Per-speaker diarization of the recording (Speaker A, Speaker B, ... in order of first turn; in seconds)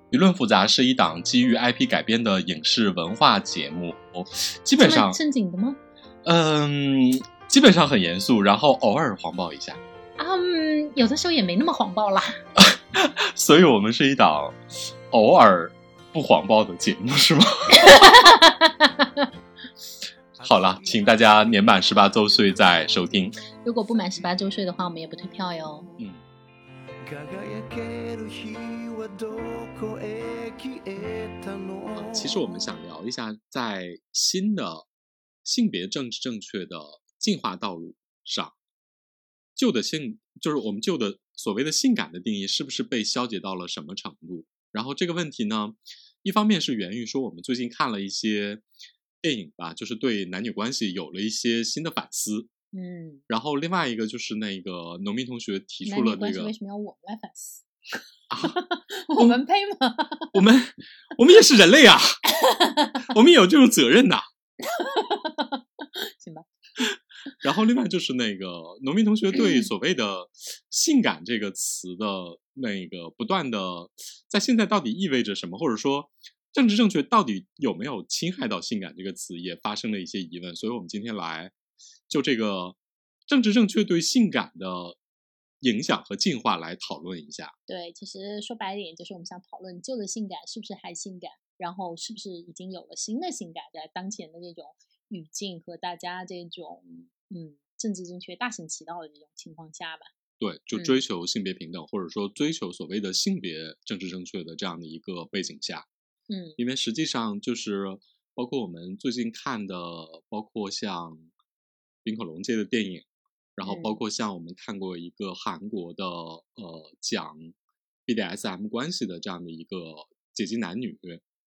Speaker A: 0.1-5.2, 6.2-9.8, 12.6-14.6, 15.1-17.9, 20.4-23.4, 31.9-34.9, 35.4-38.5, 39.5-48.6, 49.2-52.5, 53.3-56.5, 58.3-58.6, 60.3-62.2, 63.0-64.3, 66.8-81.5, 82.1-85.0, 85.6-87.5, 100.4-105.9, 106.6-111.3, 112.0-117.5, 118.1-121.2
Speaker B: 4.8-5.8, 10.2-12.4, 17.7-19.3, 23.6-25.9, 52.7-53.2, 55.8-57.6, 58.4-60.4, 62.3-63.1, 64.6-66.8, 69.3-69.7, 87.7-100.1, 100.7-101.0, 106.3-106.6, 113.6-114.0
Speaker C: 20.4-21.2, 27.0-32.6